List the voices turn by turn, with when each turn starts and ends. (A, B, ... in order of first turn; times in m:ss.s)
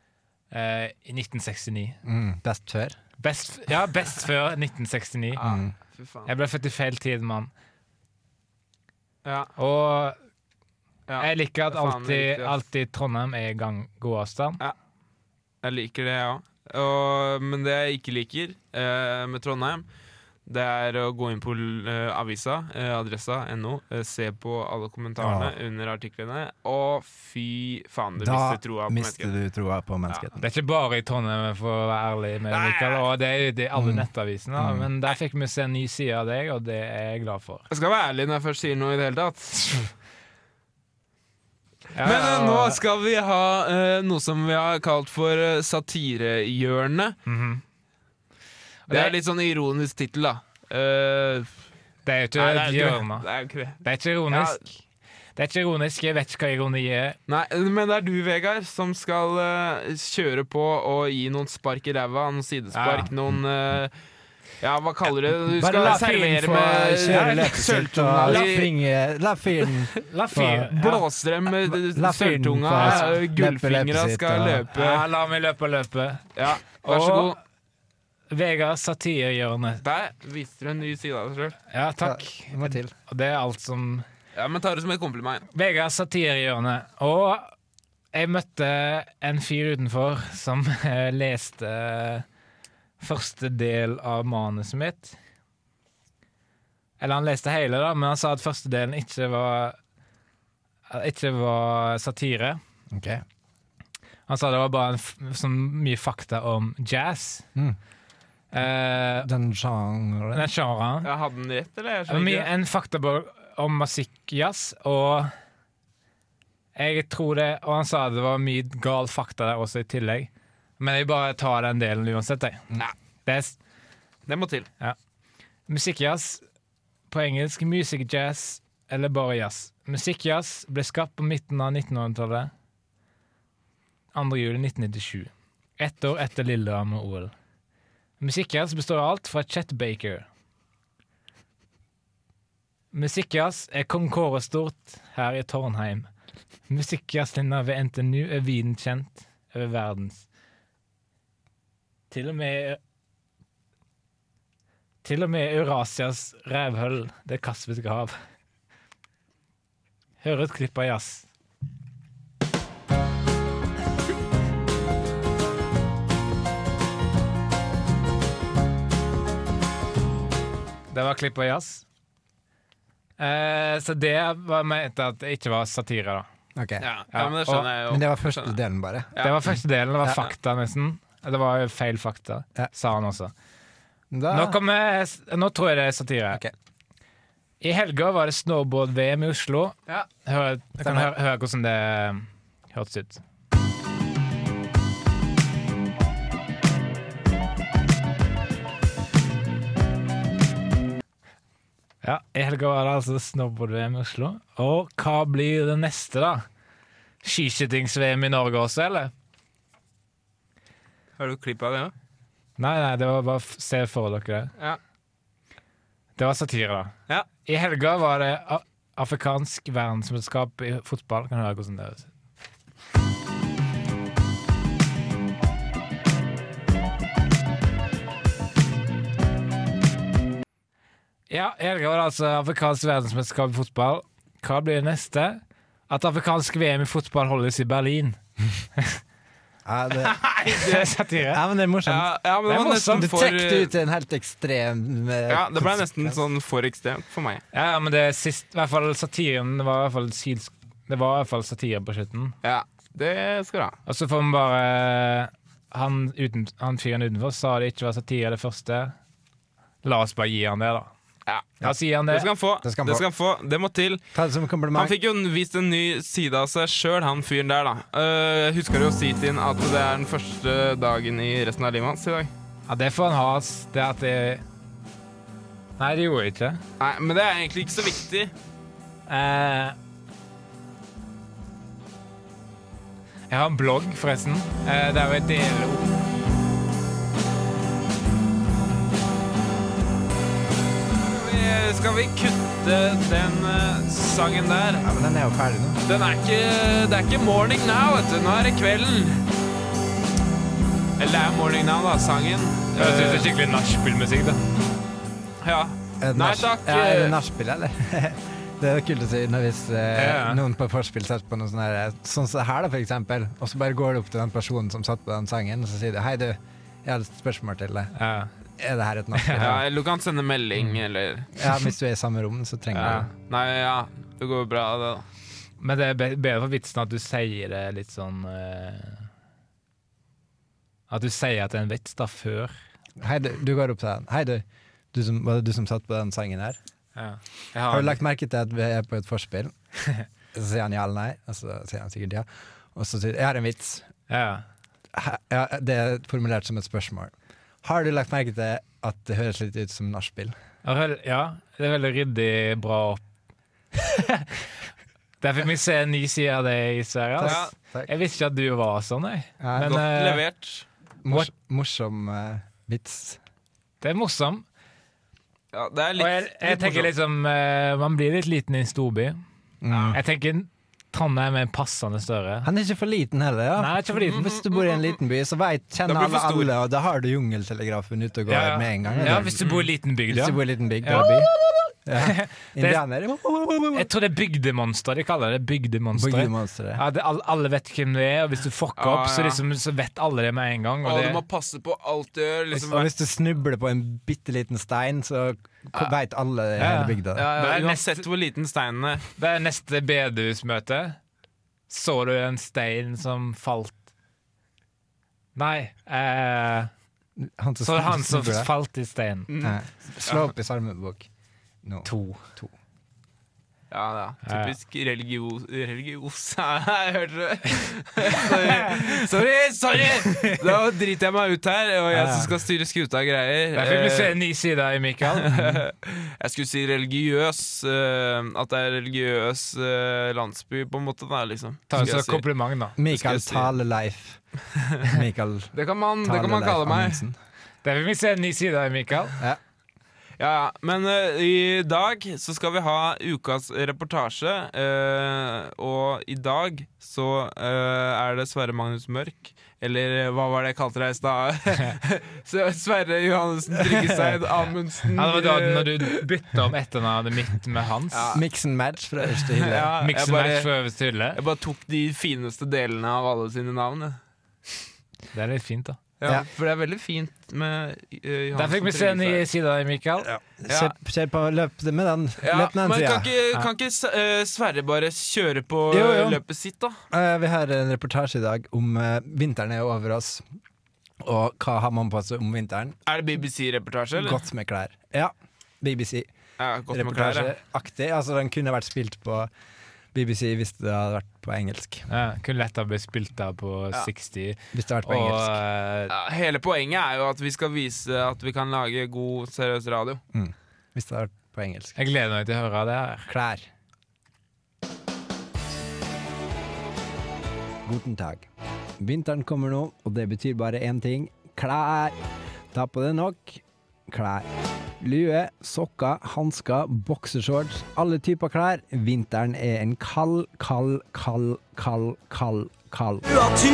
0:00.5-0:02.0 A
0:02.0-0:03.0 B
0:03.2-0:05.4 A
0:05.3-0:06.3 C
0:05.4-0:05.7 B
0:06.2-0:07.5 A
0:09.2-0:09.5 C
0:09.6-0:10.2 A
0:11.1-0:12.6 C
0:11.2-0:14.6 A
0:15.6-0:19.8 C
0:20.4-0:29.3 C
0:25.2-0:25.5 B
0:28.2-0:30.4 B
0:30.4-0:37.7 A
0:32.5-0:33.0 C
0:33.7-0:34.9 B
0:37.7-0:39.9 C
0:41.9-0:42.8 A
0:42.0-0:47.2 C
0:47.2-0:47.6 A
0:48.9-0:49.2 A
0:48.9-0:51.5 C
0:52.0-0:53.2 A
0:52.4-0:54.6 C
0:53.8-0:54.8 A
0:55.4-0:57.2 A
0:57.3-1:03.9 C
1:02.7-1:03.1 A
1:04.6-1:08.7 C
1:05.5-1:10.8 B
1:05.8-1:07.6 A
1:08.2-1:08.5 A
1:10.1-1:11.0 A
1:10.7-1:15.0 C
1:11.6-1:14.6 B
1:12.8-1:13.2 A
1:14.7-1:16.3 A
1:16.3-1:17.4 C
1:16.8-1:17.4 A
1:18.3-1:19.8 A
1:19.8-1:21.6 C
1:21.7-1:24.0 A
1:22.0-1:22.9 B
1:24.3-1:25.4 C
1:25.5-1:27.5 A
1:28.1-1:32.2 A
1:33.0-1:35.2 A
1:37.0-1:39.8 A
1:40.9-1:42.6 A
1:42.9-1:43.2 B
1:44.3-1:47.5 A
1:48.5-1:49.3 A
1:49.2-1:50.5 B
1:50.3-1:51.1 A
1:51.0-1:52.5 C
1:52.1-1:55.3 A
1:56.7-2:02.7 A
2:03.2-2:03.6 A
2:04.2-2:04.7 C
2:05.7-2:06.4 A
2:07.1-2:12.5 A
2:14.1-2:17.3 A
2:18.2-2:20.3 A
2:22.9-2:26.1 A
2:26.7-2:30.3 A
2:32.1-2:32.8 A
2:35.0-2:38.2 A
2:40.2-2:41.3 A
2:50.9-2:51.8 A
2:53.2-2:56.3 A
2:56.5-2:56.8 B
2:56.8-2:58.6 C
2:57.1-2:57.7 A
2:57.9-2:59.2 B
2:59.2-3:03.3 A
3:04.1-3:04.6 B
3:04.3-3:06.4 A
3:07.6-3:13.2 A
3:10.8-3:11.1 B
3:22.0-3:26.4 A
3:27.2-3:29.1 A
3:31.2-3:31.9 C
3:32.6-3:34.5 A
3:36.2-3:42.1 A
3:51.3-3:58.2 A
3:59.6-4:00.2 B
4:00.0-4:00.9 C
4:00.5-4:01.4 A
4:01.3-4:02.1 B
4:01.8-4:03.7 C
4:02.5-4:03.1 A
4:02.8-4:06.2 B
4:05.3-4:07.4 C
4:07.5-4:12.4 A
4:12.4-4:13.8 C
4:13.8-4:18.9 A
4:19.8-4:20.9 A
4:21.2-4:21.5 C
4:21.6-4:22.3 A
4:22.1-4:24.0 C
4:22.6-4:23.0 B
4:24.1-4:24.9 B
4:24.7-4:32.3 C
4:32.7-4:34.4 A
4:35.8-4:36.6 A
4:36.8-4:38.3 C
4:39.1-4:39.8 A
4:43.3-4:45.9 A
4:51.0-4:54.8 C
4:54.8-4:55.8 B
4:55.8-4:59.2 C
5:01.0-5:03.3 C
5:02.7-5:04.4 A
5:05.4-5:07.2 C
5:06.0-5:17.9 B
5:10.0-5:10.4 A
5:17.9-5:18.3 A
5:18.6-5:19.6 B
5:19.1-5:19.6 A
5:19.4-5:21.3 C
5:21.3-5:23.1 B
5:22.7-5:25.0 C
5:22.8-5:23.1 A
5:25.6-5:29.1 A
5:30.9-5:32.5 A
5:33.0-5:36.6 B
5:37.0-5:38.0 A
5:37.7-5:39.5 B
5:40.3-5:43.9 B
5:44.1-5:44.4 A
5:44.9-5:50.3 B
5:50.6-5:53.0 A
5:53.7-5:54.5 A
5:55.2-6:00.2 A
5:57.2-5:57.9 B
5:57.2-5:57.5 C
5:59.4-5:59.8 B
5:59.6-6:00.6 C
6:01.0-6:03.2 B
6:03.8-6:04.4 A
6:05.5-6:06.9 C
6:06.0-6:09.2 A
6:09.6-6:10.0 B
6:09.7-6:10.0 C
6:09.9-6:12.5 A
6:12.4-6:19.3 B
6:13.6-6:14.3 A
6:14.1-6:15.0 C
6:15.8-6:16.5 C
6:18.3-6:21.3 A
6:18.8-6:19.7 C
6:20.1-6:21.3 B
6:21.8-6:23.9 B
6:22.0-6:22.8 A
6:23.7-6:31.2 A
6:25.9-6:26.8 B
6:28.8-6:29.4 C
6:30.8-6:32.9 C
6:32.5-6:37.3 B
6:36.6-6:38.0 A
6:37.1-6:39.1 C
6:39.2-6:41.0 A
6:41.7-6:43.8 A
6:45.4-6:46.7 A
6:47.2-6:48.5 B
6:47.6-6:49.3 A
6:49.3-6:50.3 C
6:49.4-6:51.1 B
6:51.6-6:52.5 B
6:51.8-6:52.2 A
6:53.7-7:04.2 C
6:54.2-6:54.5 A
6:58.1-6:58.9 A
7:02.0-7:02.2 A
7:03.5-7:05.6 A
7:05.0-7:12.2 C
7:11.7-7:12.8 A
7:12.8-7:14.2 B
7:12.9-7:13.5 C
7:14.8-7:15.5 B
7:15.5-7:17.0 C
7:16.0-7:17.2 B
7:17.6-7:19.2 A
7:20.2-7:36.0 C
7:33.6-7:34.2 B
7:34.9-7:38.1 A
7:37.9-7:38.2 C
7:38.1-7:39.7 B
7:39.1-7:40.5 C
7:39.8-7:41.2 A
7:41.1-7:44.0 C
7:45.1-7:45.8 A
7:46.0-7:49.2 C
7:48.3-7:50.1 A
7:50.0-7:53.1 B
7:50.5-7:50.7 C
7:52.2-7:56.8 C
7:55.7-7:56.2 B
7:56.9-8:00.2 B
8:01.0-8:02.8 B
8:02.9-8:04.2 C
8:04.0-8:06.1 B
8:06.4-8:07.3 C
8:06.7-8:09.3 B
8:09.9-8:11.9 B
8:11.9-8:15.9 A
8:14.5-8:15.4 B
8:15.9-8:20.0 C
8:20.1-8:21.8 B
8:21.8-8:23.1 A
8:23.1-8:23.5 B
8:27.6-8:28.3 B
8:28.8-8:32.0 B
8:32.5-8:34.3 B
8:34.8-8:43.2 B